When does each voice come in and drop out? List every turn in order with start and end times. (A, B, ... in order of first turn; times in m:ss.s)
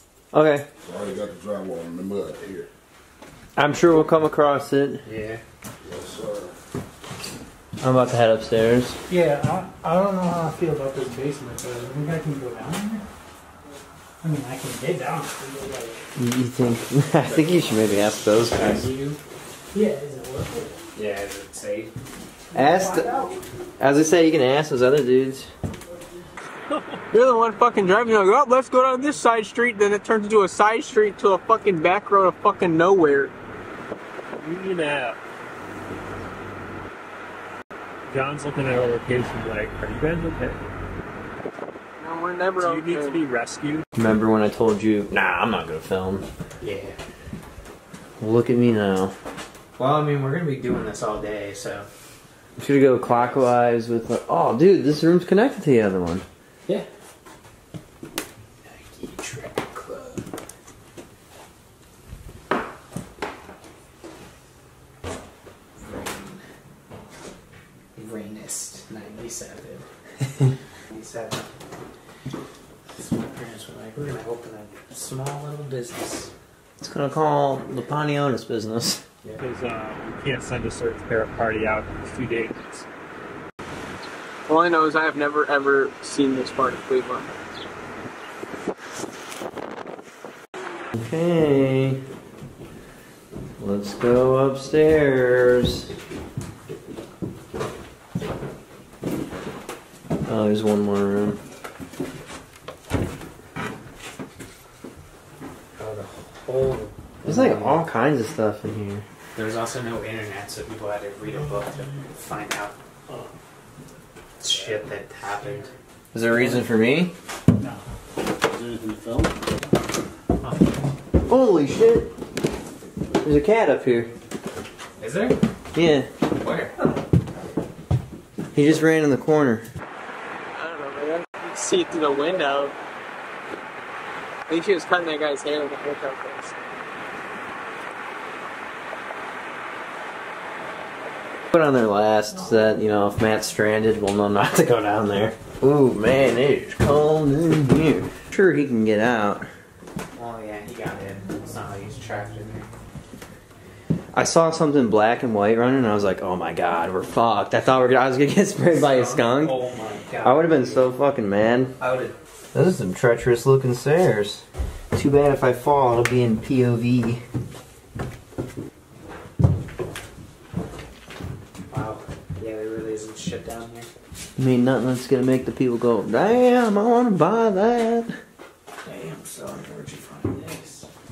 0:00.3-0:00.7 A
0:00.8-0:02.7 B
0:03.6-0:05.0 A
0:05.0-0:05.4 C
0:05.8-0:06.5 B
0:07.8-0:09.0 A
0:09.1-0:13.0 D
0:14.2-0:16.0 D
0:16.2-0:18.9 A
0:17.2-0:19.2 C
0:19.7-0:20.8 D
0:20.9-0:21.9 C
0:22.5-0:23.1 A
0:22.6-0:23.1 D
0:23.8-0:25.5 A
0:27.1-0:33.3 E
0:34.4-0:35.2 F
0:38.1-0:40.6 F
0:42.0-0:43.2 E
0:42.5-0:43.8 F
0:44.0-0:46.2 A
0:46.6-0:47.0 C
0:48.2-0:49.1 A
0:49.8-0:51.8 C
0:52.6-0:56.2 A
0:53.0-0:53.5 C
0:58.6-1:00.3 C
1:05.8-1:06.4 C
1:08.0-1:09.9 C
1:10.9-1:11.5 C
1:13.0-1:16.3 C
1:16.8-1:19.0 A
1:19.4-1:22.8 F
1:24.5-1:27.3 E
1:31.0-1:32.0 A
1:33.6-1:35.9 A
1:40.3-1:41.4 A
1:45.8-1:47.8 C
1:47.2-1:49.0 A
1:49.3-1:52.8 C
1:54.4-1:55.7 C
1:56.1-1:57.1 A
1:58.6-1:59.2 B
2:01.3-2:02.1 A
2:03.2-2:04.1 A
2:05.0-2:05.4 C
2:05.7-2:06.1 A
2:06.4-2:06.7 C
2:08.5-2:09.7 A
2:10.5-2:12.7 E
2:14.5-2:16.6 E
2:21.5-2:29.5 A
2:30.2-2:32.7 C
2:34.1-2:39.6 A
2:38.7-2:41.0 C
2:40.2-2:41.7 A
2:41.8-2:42.1 C
2:42.5-2:47.2 A
2:51.7-2:53.9 C
2:54.4-2:58.1 A
2:58.8-3:00.9 C